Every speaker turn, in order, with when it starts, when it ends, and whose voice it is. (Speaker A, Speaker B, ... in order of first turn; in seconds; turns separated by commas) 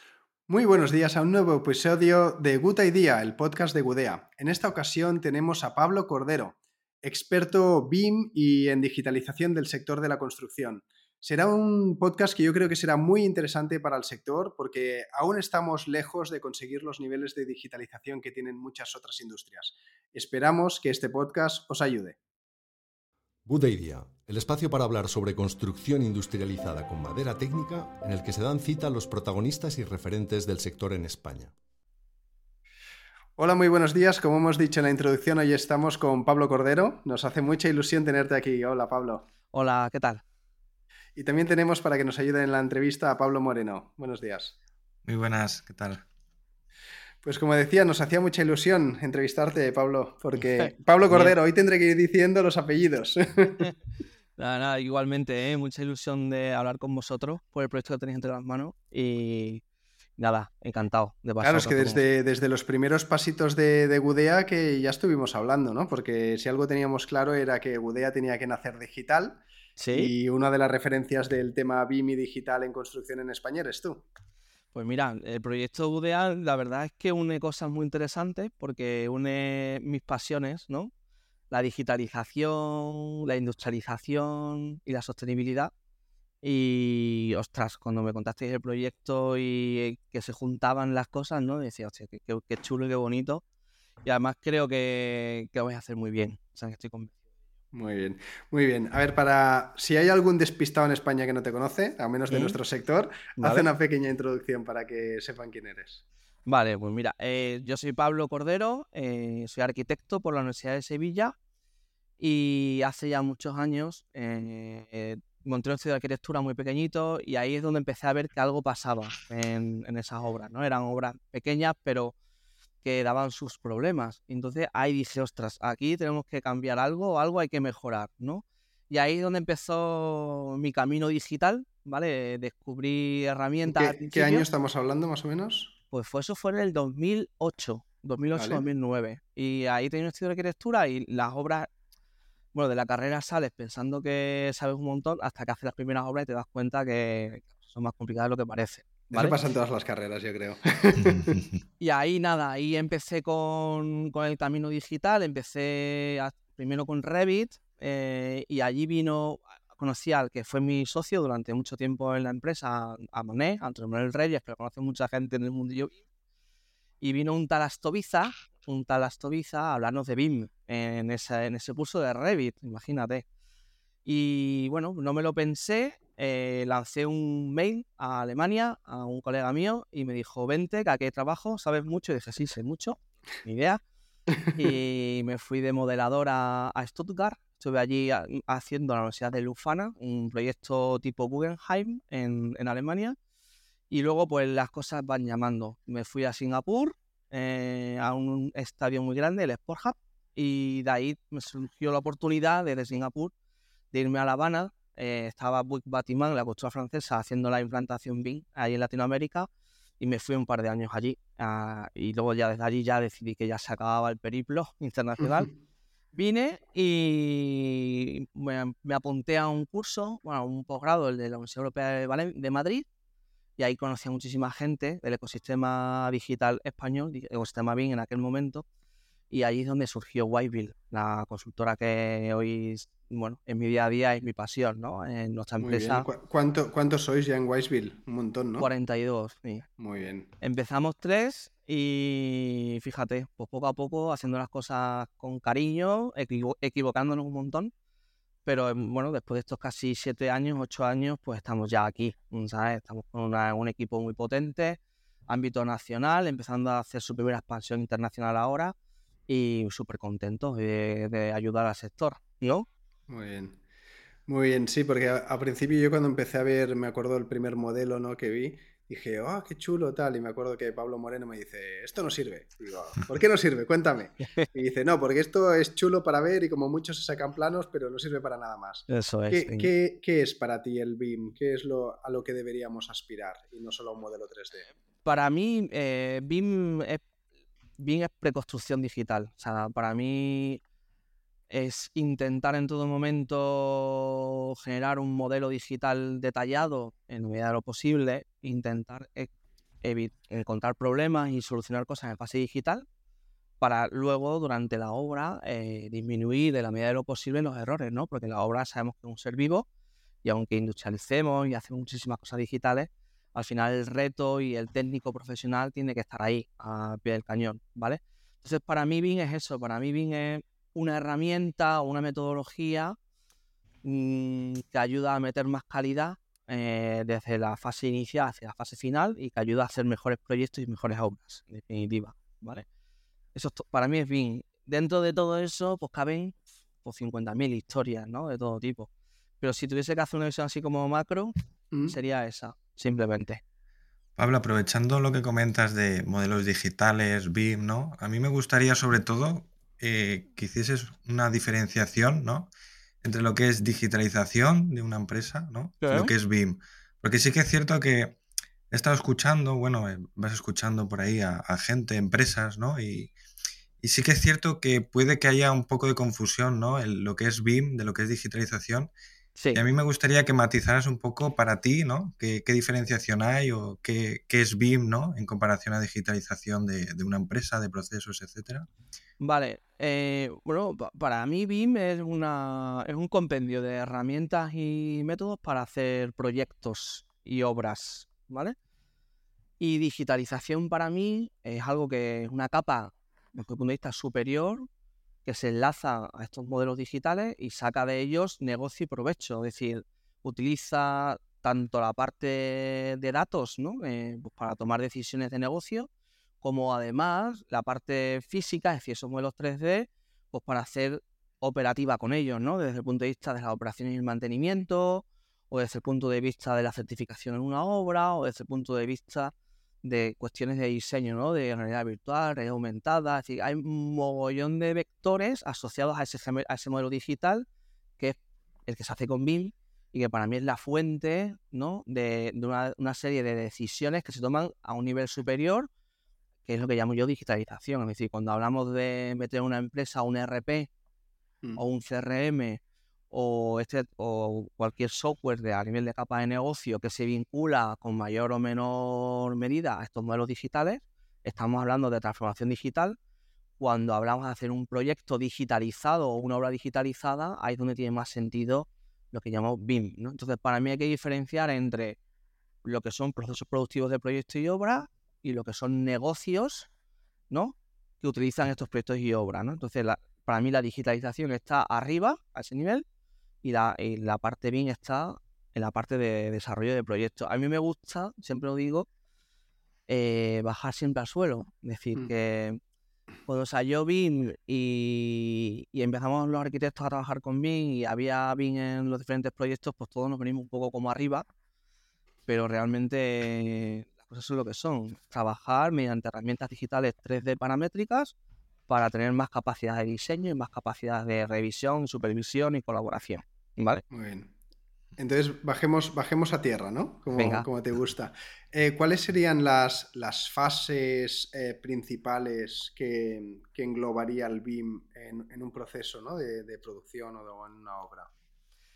Speaker A: 0.5-22.2, Speaker B: 23.4-31.5, Speaker A: 33.4-39.2, Speaker C: 39.5-40.2, Speaker A: 41.1-44.5, Speaker D: 45.0-46.0, Speaker A: 47.2-53.7, Speaker C: 50.4-51.3, Speaker C: 54.4-59.6, Speaker C: 60.2-62.0, Speaker A: 61.4-69.4, Speaker C: 69.8-70.1, Speaker A: 69.9-74.1, Speaker C: 74.7-80.9, Speaker C: 81.5-85.7, Speaker C: 86.4-93.4, Speaker C: 94.0-97.1, Speaker A: 97.7-106.0, Speaker C: 102.3-102.6, Speaker C: 103.4-103.7, Speaker C: 106.5-111.3, Speaker C: 112.2-122.1, Speaker C: 122.8-134.5, Speaker A: 133.7-135.7, Speaker C: 135.9-141.7, Speaker A: 138.3-138.6, Speaker C: 142.5-149.4, Speaker A: 149.1-151.4, Speaker C: 151.8-165.9, Speaker C: 167.0-173.2, Speaker C: 174.0-183.8, Speaker A: 184.4-184.7, Speaker C: 184.5-193.2, Speaker C: 193.9-203.3, Speaker C: 203.9-209.5, Speaker C: 210.0-215.5, Speaker C: 216.1-222.8, Speaker C: 223.6-228.6, Speaker C: 229.3-236.1, Speaker A: 235.6-238.7, Speaker C: 238.6-239.7, Speaker A: 239.8-240.3, Speaker C: 240.4-247.7, Speaker C: 248.4-258.7, Speaker C: 259.3-262.6, Speaker A: 263.1-263.6, Speaker A: 264.3-284.7, Speaker C: 278.9-279.7, Speaker C: 285.0-287.0, Speaker C: 287.8-290.6, Speaker C: 291.5-299.3, Speaker C: 299.8-302.8, Speaker C: 303.6-309.6, Speaker C: 310.2-322.9, Speaker C: 323.8-332.6, Speaker C: 333.3-338.9, Speaker C: 339.4-341.3, Speaker C: 341.9-343.4, Speaker D: 344.2-352.5, Speaker D: 353.0-358.2, Speaker C: 355.8-356.1, Speaker D: 358.7-363.1, Speaker D: 363.8-368.9, Speaker C: 369.4-369.6, Speaker D: 369.5-378.7, Speaker C: 379.2-388.5, Speaker C: 389.6-394.7, Speaker C: 395.2-405.9, Speaker C: 406.4-419.3, Speaker C: 419.8-427.4, Speaker C: 428.0-435.7, Speaker C: 436.4-440.7, Speaker C: 441.6-453.0, Speaker C: 453.6-462.0, Speaker C: 462.6-466.7, Speaker C: 467.3-472.8, Speaker C: 473.4-478.9, Speaker C: 479.9-482.6, Speaker C: 483.3-491.2, Speaker C: 492.3-498.1, Speaker C: 498.7-503.8, Speaker A: 503.9-504.3, Speaker A: 505.0-518.1, Speaker C: 507.1-507.5